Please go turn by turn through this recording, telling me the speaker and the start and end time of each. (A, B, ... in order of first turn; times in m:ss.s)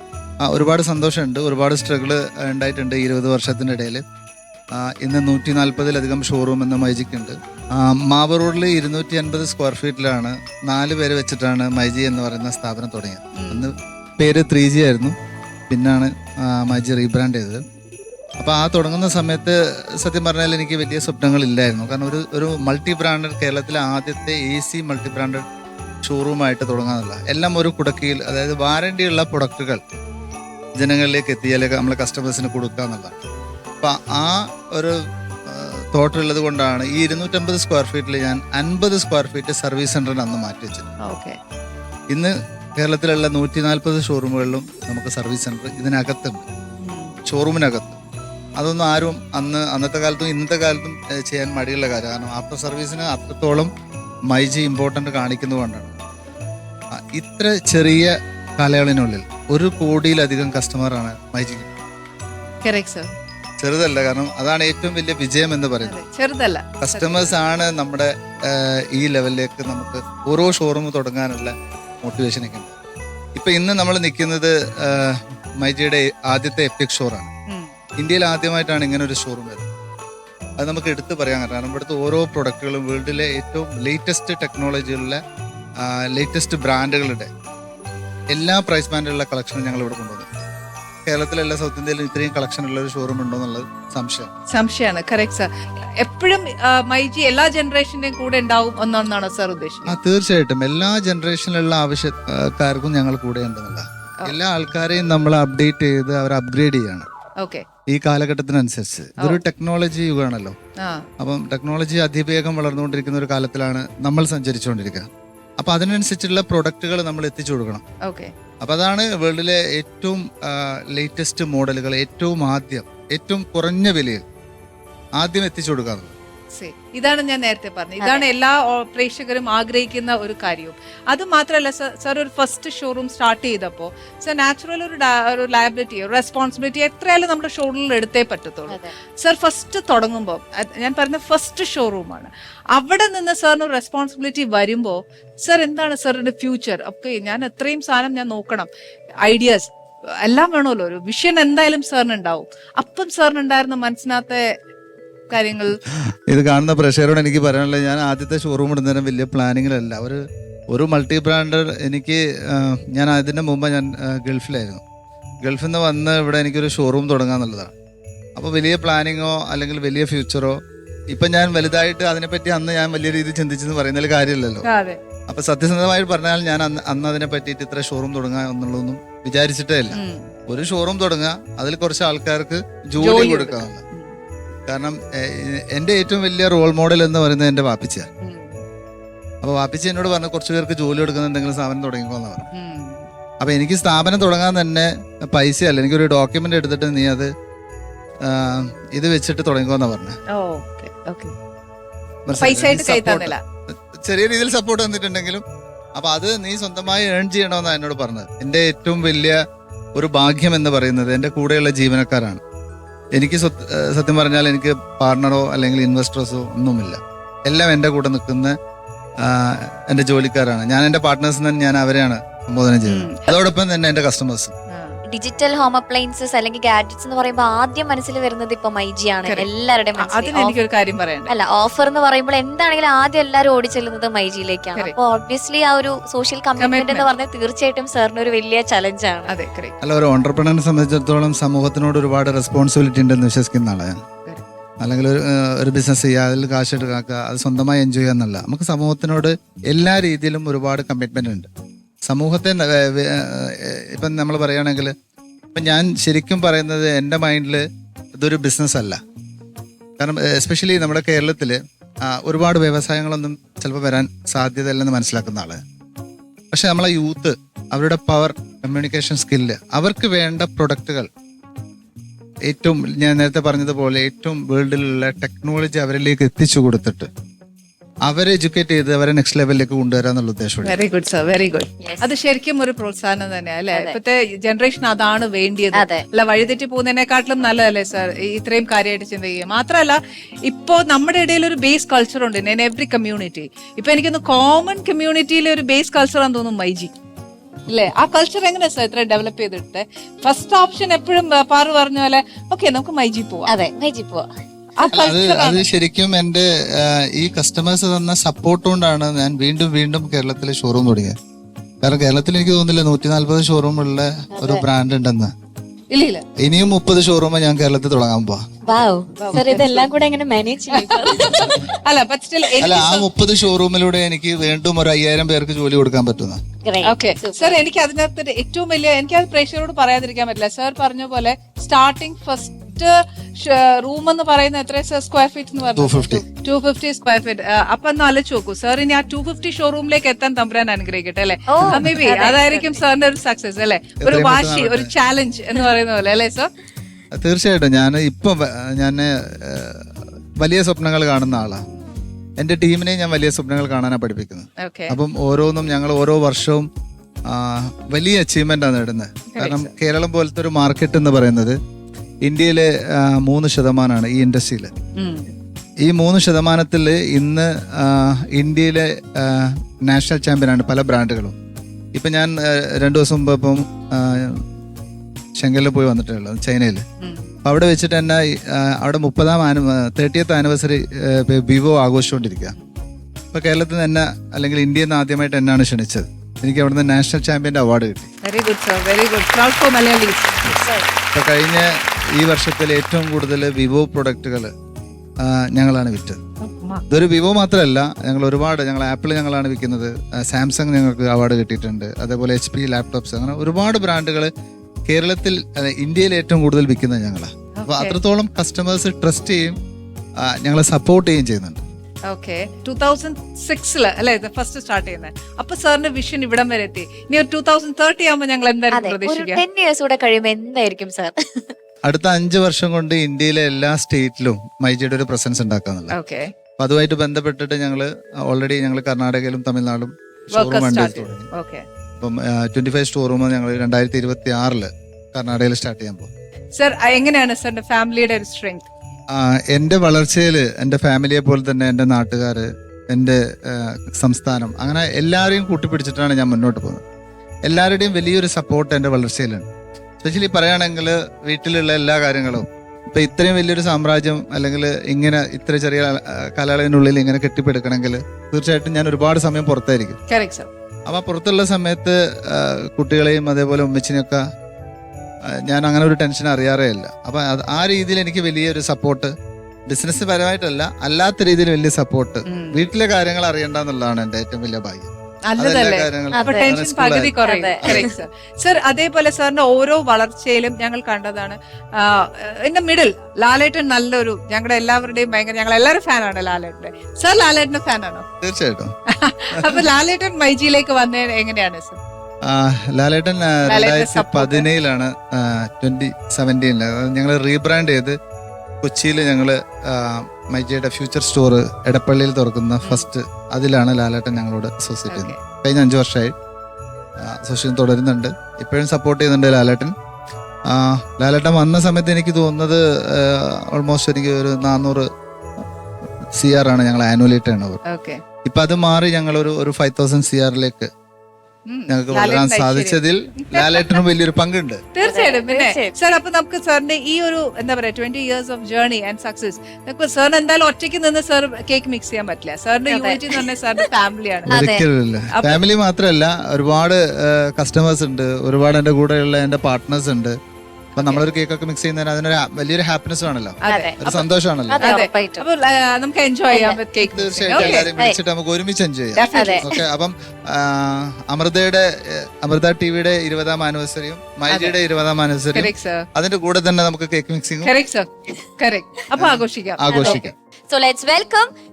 0:00.4-0:04.0 A
0:04.7-0:15.1 A
0:13.4-0:13.7 B
0:15.7-0:17.6 A
0:18.4-0:25.4 A
0:26.0-0:29.8 A
0:30.8-0:33.2 A
0:33.8-0:40.9 A
0:41.0-0:41.4 B
0:42.1-0:46.4 A
0:46.8-0:47.1 B
0:47.2-0:48.0 A
0:48.6-0:53.7 A
0:54.3-0:55.9 A
0:56.9-1:01.7 A
1:02.6-1:03.1 B
1:03.6-1:06.0 A
1:05.8-1:07.3 B
1:06.8-1:12.7 A
1:13.4-1:17.3 A
1:18.0-1:19.7 A
1:20.6-1:25.2 A
1:25.8-1:27.3 A
1:28.3-1:30.3 A
1:31.0-1:34.3 A
1:34.5-1:40.0 B
1:39.8-1:47.1 A
1:47.4-1:47.6 B
1:47.9-1:50.6 A
1:50.8-1:51.1 B
1:51.2-1:55.1 A
1:55.6-1:57.8 A
1:58.0-1:58.3 B
1:58.6-2:04.2 A
2:05.2-2:06.1 A
2:06.5-2:28.7 B
2:08.0-2:08.2 C
2:18.7-2:18.9 C
2:29.2-2:34.4 B
2:35.3-2:35.8 B
2:36.0-2:44.8 A
2:45.4-2:47.7 A
2:48.4-2:54.6 A
2:54.6-2:55.0 B
2:55.3-3:03.8 A
2:59.9-3:00.3 B
3:03.0-3:04.2 B
3:04.7-3:08.1 A
3:08.2-3:08.6 B
3:09.4-3:12.5 A
3:12.5-3:13.1 B
3:13.4-3:17.3 A
3:18.2-3:20.2 A
3:20.3-3:21.3 B
3:22.3-3:25.4 A
3:22.4-3:23.4 B
3:26.0-3:29.4 A
3:30.0-3:32.4 A
3:33.2-3:38.6 A
3:39.2-3:44.5 A
3:42.9-3:43.3 B
3:44.7-3:45.0 B
3:45.1-3:50.6 C
3:49.2-3:51.3 B
3:51.3-3:59.3 C
3:56.6-3:57.1 B
3:59.3-3:59.8 B
3:59.8-4:04.0 A
4:04.8-4:11.5 A
4:12.0-4:14.9 A
4:15.5-4:17.6 A
4:18.2-4:19.0 A
4:20.0-4:25.6 A
4:26.5-4:31.1 A
4:32.5-4:37.1 A
4:38.0-4:40.8 A
4:40.6-4:56.9 B
4:41.8-4:42.1 C
4:43.7-4:44.0 C
4:45.7-4:46.0 C
4:57.7-5:03.5 B
5:03.5-5:04.3 C
5:04.8-5:05.6 B
5:04.9-5:11.2 A
5:11.8-5:15.3 A
5:14.3-5:14.6 C
5:15.9-5:16.2 B
5:16.4-5:18.4 A
5:18.6-5:21.6 C
5:19.2-5:19.9 B
5:20.7-5:23.0 B
5:22.6-5:26.4 A
5:26.6-5:27.6 C
5:26.8-5:46.5 B
5:35.7-5:36.2 A
5:41.5-5:42.7 C
5:44.0-5:44.9 A
5:47.1-5:51.6 A
5:52.4-5:56.7 A
5:54.6-5:55.0 B
5:57.3-6:01.6 A
5:59.3-5:59.7 B
6:02.2-6:04.7 A
6:05.0-6:05.3 B
6:05.8-6:11.3 A
6:11.9-6:14.4 A
6:15.4-6:16.8 A
6:17.0-6:17.3 B
6:17.4-6:22.5 A
6:23.3-6:28.1 A
6:28.2-6:30.6 B
6:30.6-6:30.9 C
6:31.1-6:34.5 A
6:35.2-6:36.2 A
6:36.4-6:36.8 B
6:36.9-6:44.3 A
6:44.9-6:49.6 A
6:47.6-6:48.0 B
6:50.2-6:51.6 A
6:52.1-6:59.4 B
6:58.7-7:01.4 C
7:01.8-7:06.0 A
7:05.9-7:06.3 B
7:06.6-7:11.3 A
7:10.3-7:11.6 B
7:12.0-7:16.1 A
7:16.6-7:18.7 B
7:19.1-7:26.8 A
7:27.5-7:29.5 A
7:30.0-7:40.0 A
7:40.1-7:40.5 B
7:40.9-7:44.2 A
7:45.3-7:49.1 A
7:49.7-7:57.9 A
7:52.3-7:52.6 B
7:55.3-8:08.0 B
7:56.1-7:56.5 C
7:57.2-7:57.9 C
8:08.2-8:08.7 A
8:08.9-8:11.8 B
8:09.4-8:09.6 A
8:12.2-8:18.0 A
8:13.4-8:14.5 B
8:18.6-8:26.1 A
8:24.9-8:25.2 B
8:27.0-8:29.7 A
8:30.5-8:34.9 A
8:36.1-8:37.6 A
8:37.6-8:38.0 B
8:38.2-8:40.7 A
8:41.5-8:42.8 B
8:41.7-8:44.6 A
8:43.3-8:43.6 B
8:44.7-8:54.3 B
8:44.8-8:45.7 C
8:52.7-8:53.2 C
8:54.3-9:00.2 A
8:54.3-8:54.6 C
8:55.1-8:55.4 B
9:00.8-9:04.8 A
9:03.4-9:04.0 B
9:03.5-9:03.8 C
9:04.5-9:05.2 C
9:04.6-9:07.7 B
9:06.3-9:06.6 C
9:06.8-9:17.5 A
9:07.4-9:08.0 C
9:09.0-9:09.4 B
9:09.1-9:09.4 C
9:14.3-9:14.5 B
9:15.3-9:15.8 B
9:17.4-9:20.0 B
9:19.0-9:20.1 A
9:19.7-9:21.3 C